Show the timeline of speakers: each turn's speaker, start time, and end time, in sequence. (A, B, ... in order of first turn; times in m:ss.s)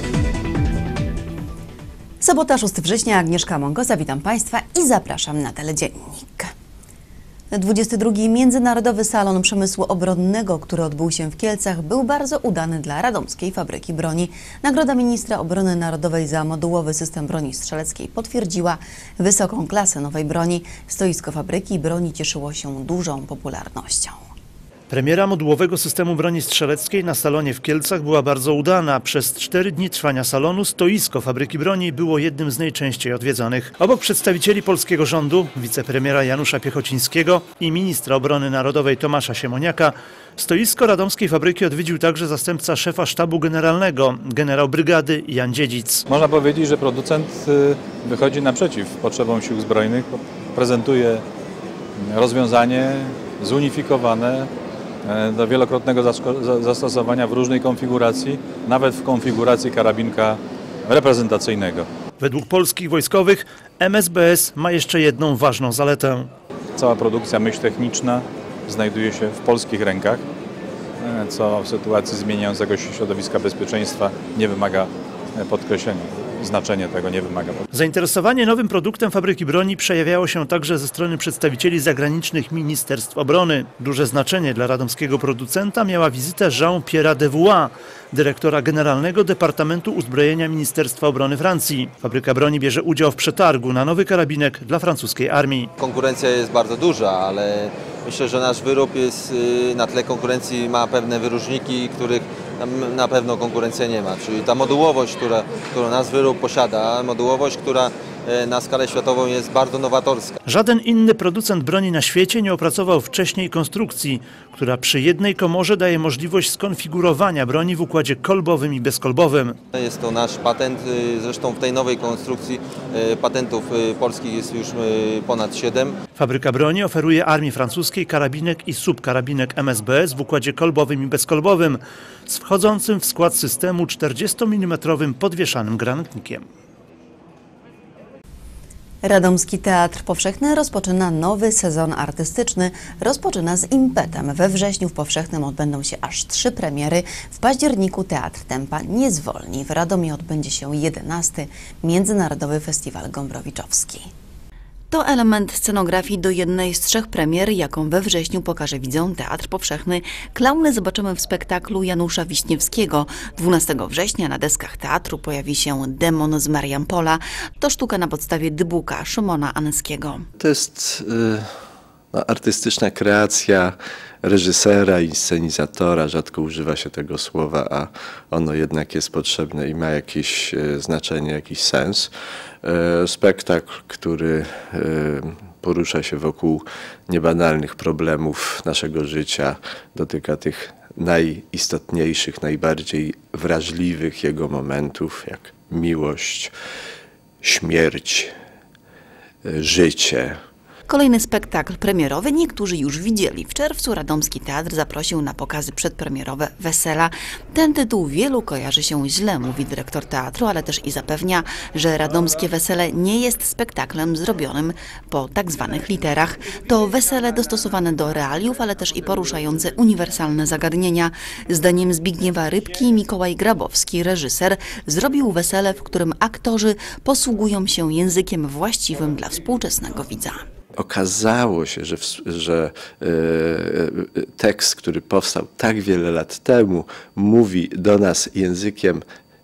0:02.2-0:06.5 A
0:07.5-0:24.2 A
0:24.9-0:46.0 B
0:46.1-0:51.2 C
0:52.0-0:54.5 C
0:55.0-1:01.9 C
1:02.2-1:06.3 B
1:06.8-1:10.3 C
1:11.0-1:17.6 C
1:17.7-1:35.7 B
1:35.8-1:50.4 D
1:50.4-1:59.6 B
1:59.7-2:06.0 D
2:06.2-2:16.4 B
2:19.0-2:34.1 A
2:34.9-2:50.3 A
2:50.4-2:51.5 E
2:52.1-3:02.1 E
3:02.6-3:16.5 E
3:17.4-3:18.3 E
3:19.4-3:20.4 E
3:20.9-3:50.4 A
3:50.8-3:59.0 E